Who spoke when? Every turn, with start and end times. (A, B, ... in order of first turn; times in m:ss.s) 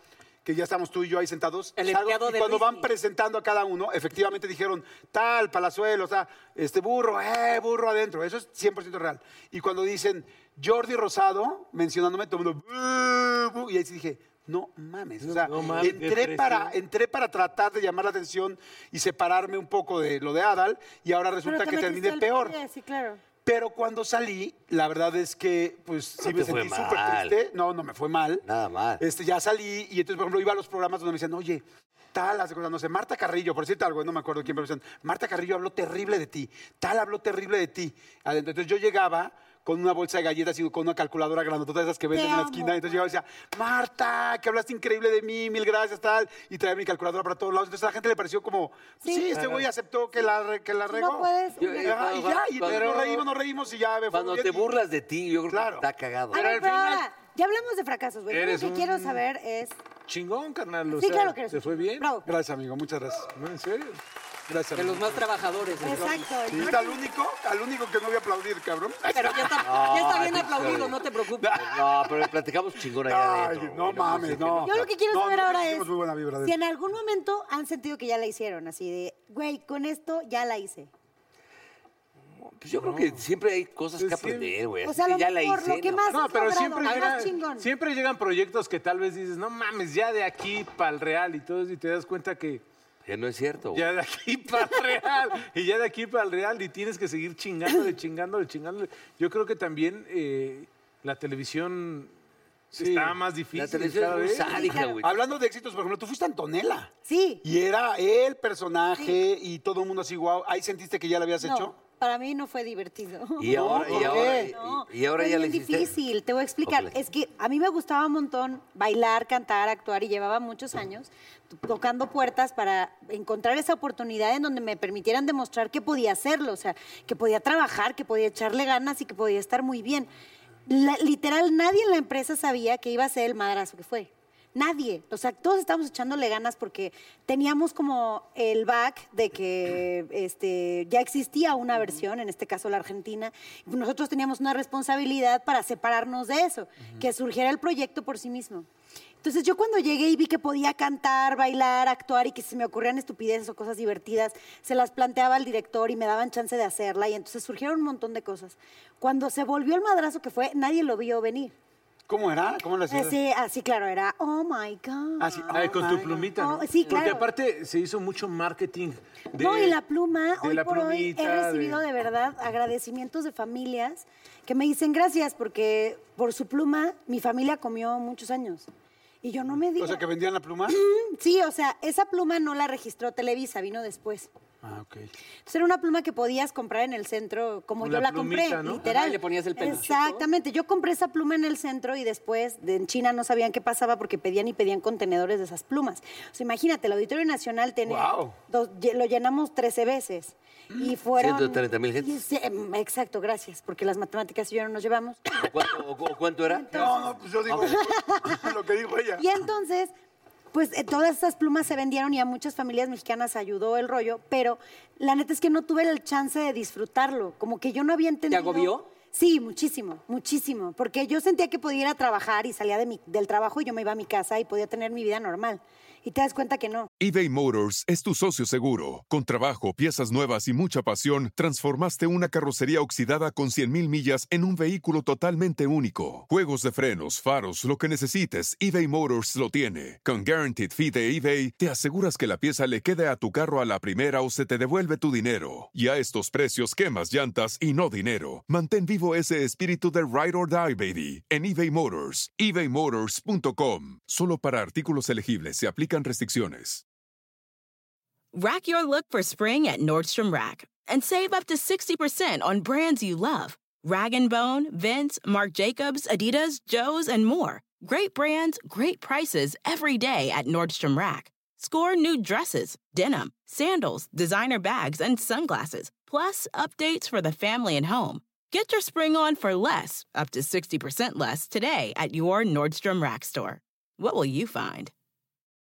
0:00.4-0:22.6 A
0:01.8-0:02.9 B
0:15.2-0:16.8 C
0:21.4-0:23.2 D
0:23.4-0:28.4 A
0:26.2-0:27.3 E
0:28.4-0:29.0 E
0:29.0-0:51.3 A
0:42.1-0:42.8 D
0:49.0-0:49.3 D
0:49.3-0:49.7 C
0:50.9-0:52.0 D
0:51.6-0:53.2 E
0:51.8-0:54.8 A
0:52.6-0:53.2 C
0:54.1-0:56.4 E
0:55.5-0:55.9 A
0:56.3-0:59.8 D
0:56.3-0:57.0 C
0:58.3-0:59.2 C
1:00.0-1:02.1 C
1:00.9-1:02.2 D
1:02.2-1:03.3 A
1:03.3-1:04.0 C
1:04.5-1:05.3 A
1:04.7-1:06.3 B
1:05.8-1:09.6 A
1:05.8-1:07.0 D
1:09.1-1:11.6 B
1:09.6-1:11.0 E
1:11.4-1:12.3 A
1:11.5-1:14.9 E
1:13.0-1:16.6 A
1:14.6-1:15.9 D
1:16.4-1:20.9 D
1:22.4-1:26.1 E
1:22.8-1:23.1 C
1:24.0-1:24.5 C
1:24.8-1:27.7 D
1:26.1-1:32.6 C
1:26.8-1:27.3 B
1:33.0-1:33.8 E
1:33.7-1:42.1 C
1:42.7-1:44.8 C
1:42.8-1:43.2 A
1:43.5-1:45.2 E
1:44.4-1:44.9 D
1:45.0-1:46.9 A
1:47.0-1:47.4 D
1:47.4-1:51.7 A
1:51.4-2:10.1 D
1:53.4-1:55.9 E
1:53.4-1:54.5 A
1:56.6-1:56.9 E
2:10.7-2:28.6 D
2:29.2-2:41.5 D
2:42.1-2:43.2 A
2:42.9-2:45.5 D
2:45.2-2:46.3 A
2:45.5-2:49.8 C
2:46.2-2:47.3 D
2:49.3-2:58.7 D
2:50.4-2:51.8 C
2:59.2-3:00.0 D
2:59.8-3:00.8 A
3:00.7-3:04.3 D
3:04.6-3:05.1 A
3:05.4-3:25.3 D
3:07.8-3:08.8 C
3:08.8-3:10.2 B
3:17.9-3:18.4 A
3:21.2-3:22.2 E
3:25.3-3:27.8 E
3:26.5-3:28.5 D
3:26.7-3:29.2 A
3:29.2-3:29.9 D
3:30.5-3:46.9 D
3:38.3-3:38.8 B
3:47.0-4:16.8 F
4:18.3-4:44.9 G